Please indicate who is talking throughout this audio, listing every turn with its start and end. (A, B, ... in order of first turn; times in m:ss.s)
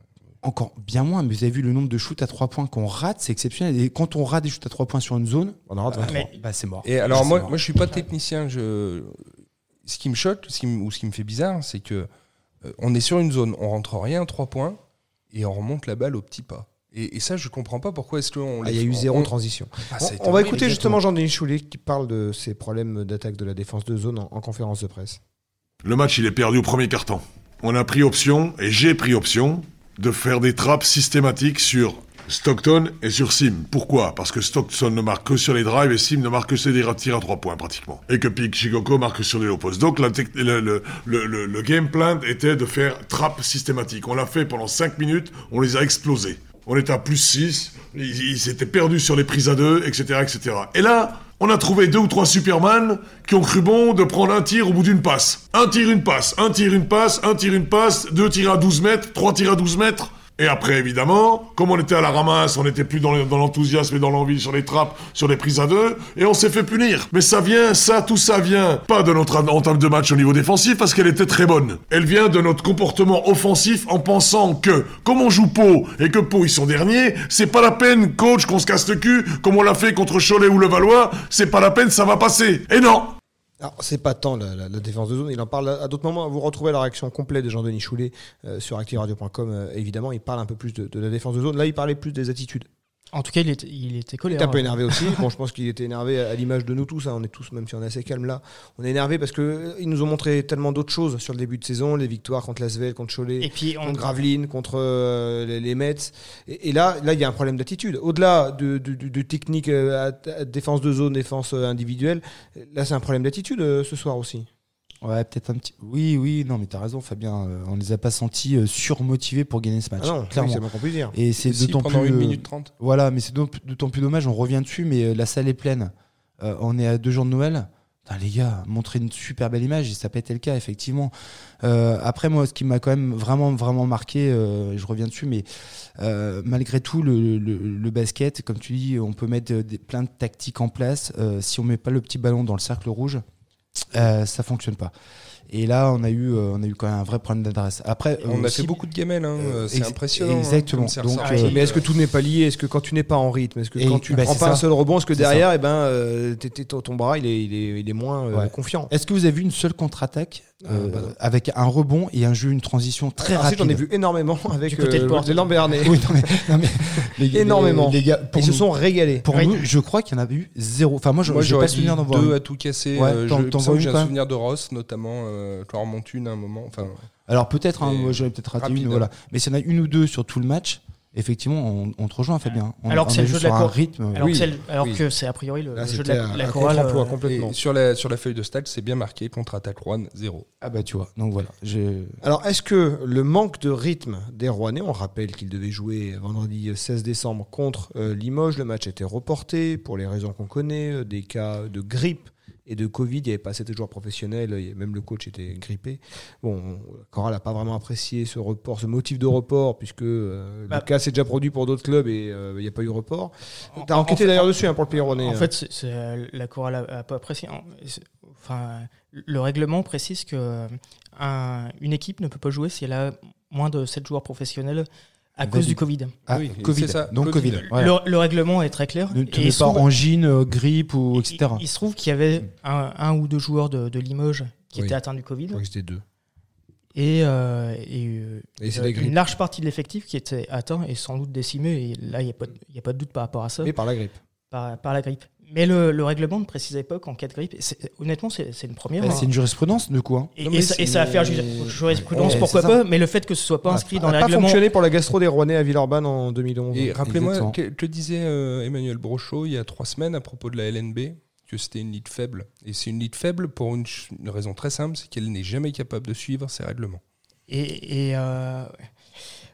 0:00.4-0:07.6 A
0:05.7-0:06.2 B
0:06.0-0:06.4 C
0:06.8-0:09.3 D
0:09.8-0:12.1 D
0:12.6-0:14.8 D
0:15.3-0:19.3 D
0:18.6-0:25.2 B
0:19.9-0:21.0 D
0:25.8-1:23.2 E
1:23.6-1:32.7 B
1:33.1-1:35.2 C
1:34.3-1:54.5 B
1:43.4-1:44.0 C
1:55.0-2:15.4 A
2:00.0-2:01.1 B
2:01.4-2:02.7 D
2:16.0-2:23.2 A
2:23.9-2:24.9 A
2:25.5-2:28.8 A
2:28.2-2:31.8 D
2:29.4-2:31.6 A
2:31.2-2:31.6 C
2:31.4-2:38.9 B
2:33.8-2:35.4 A
2:38.3-2:43.8 A
2:40.6-2:41.1 B
2:43.2-2:46.4 B
2:44.7-2:45.5 C
2:45.8-2:48.6 A
2:47.3-2:49.3 B
2:49.2-2:52.4 A
2:49.3-2:49.6 C
2:51.2-2:57.0 D
2:52.9-2:54.1 A
2:57.3-3:04.5 A
2:57.8-2:59.1 D
3:02.9-3:07.1 C
3:04.2-3:05.0 B
3:05.7-3:07.6 B
3:07.2-3:10.4 D
3:10.6-3:12.2 A
3:12.2-3:35.5 B
3:33.7-3:46.1 C
3:45.4-3:47.9 A
3:46.3-3:47.7 D
3:47.6-3:49.9 C
3:49.1-3:51.6 A
3:51.2-3:55.6 C
3:55.5-3:56.0 B
3:56.9-4:03.7 C
3:58.6-3:59.2 B
4:03.6-4:04.2 B
4:04.5-4:09.3 C
4:09.0-4:11.0 A
4:10.4-4:14.6 C
4:12.0-4:12.4 B
4:12.1-4:12.8 A
4:13.7-4:17.0 B
4:16.7-4:27.0 D
4:17.0-4:17.6 A
4:27.5-4:28.7 C